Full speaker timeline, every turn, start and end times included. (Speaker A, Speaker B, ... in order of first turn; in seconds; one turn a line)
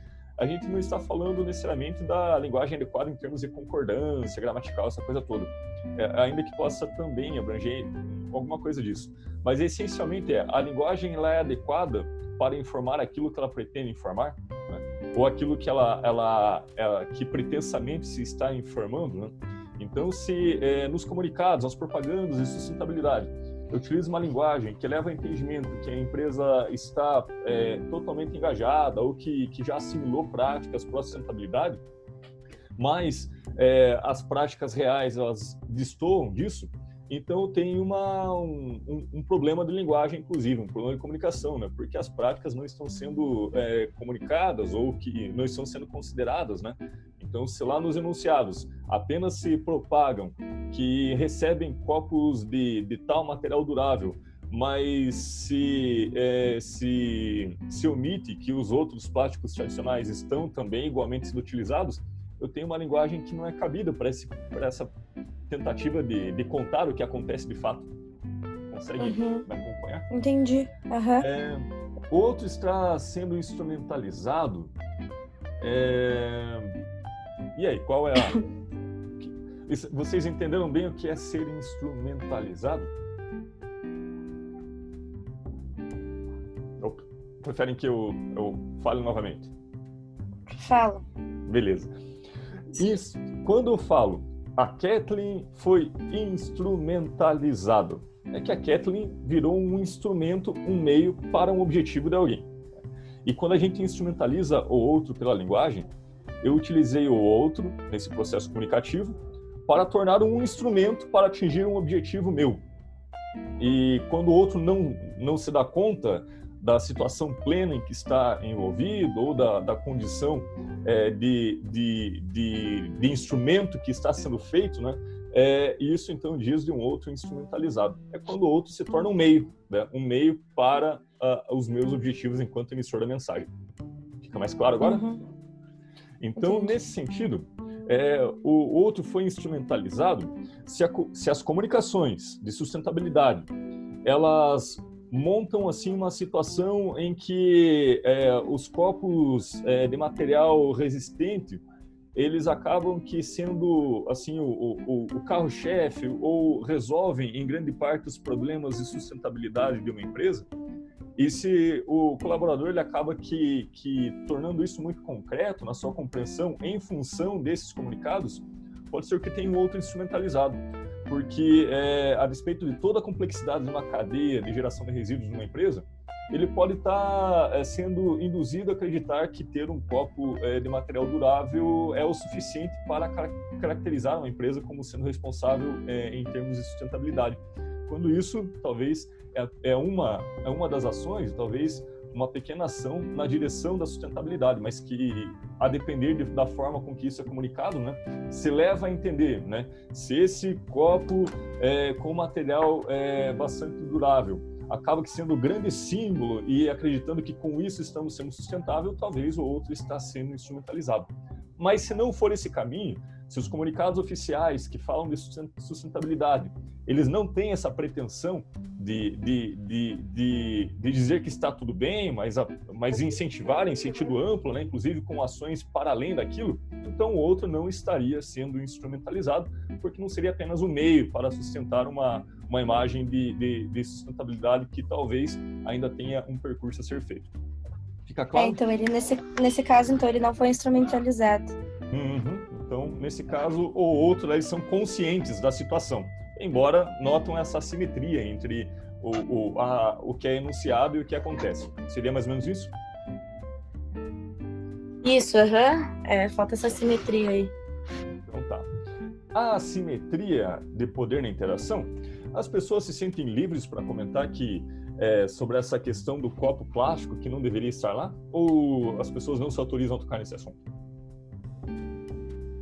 Speaker A: 0.4-31.8
Speaker A: 32.8-64.9
Speaker A: 65.5-67.9
Speaker A: 68.7-70.1
Speaker B: 69.0-69.5
Speaker B: 70.1-71.3
Speaker A: 71.2-74.7
Speaker A: 75.6-76.8
Speaker A: 77.5-78.4
Speaker A: 79.2-82.9
Speaker A: 86.8-89.5
Speaker B: 90.5-91.0
Speaker A: 91.5-91.9
Speaker A: 92.7-102.5
Speaker A: 103.2-105.9
Speaker A: 106.4-109.2
Speaker A: 109.7-112.6
Speaker A: 113.6-133.5
Speaker A: 134.2-135.0
Speaker B: 134.8-135.2
Speaker A: 136.2-143.5
Speaker B: 136.4-136.7
Speaker A: 144.0-160.5
Speaker A: 161.2-237.3
Speaker A: 238.1-238.6
Speaker B: 238.3-241.6
Speaker A: 241.9-252.7
Speaker B: 255.0-257.5
Speaker A: 258.2-258.7
Speaker A: 259.3-270.6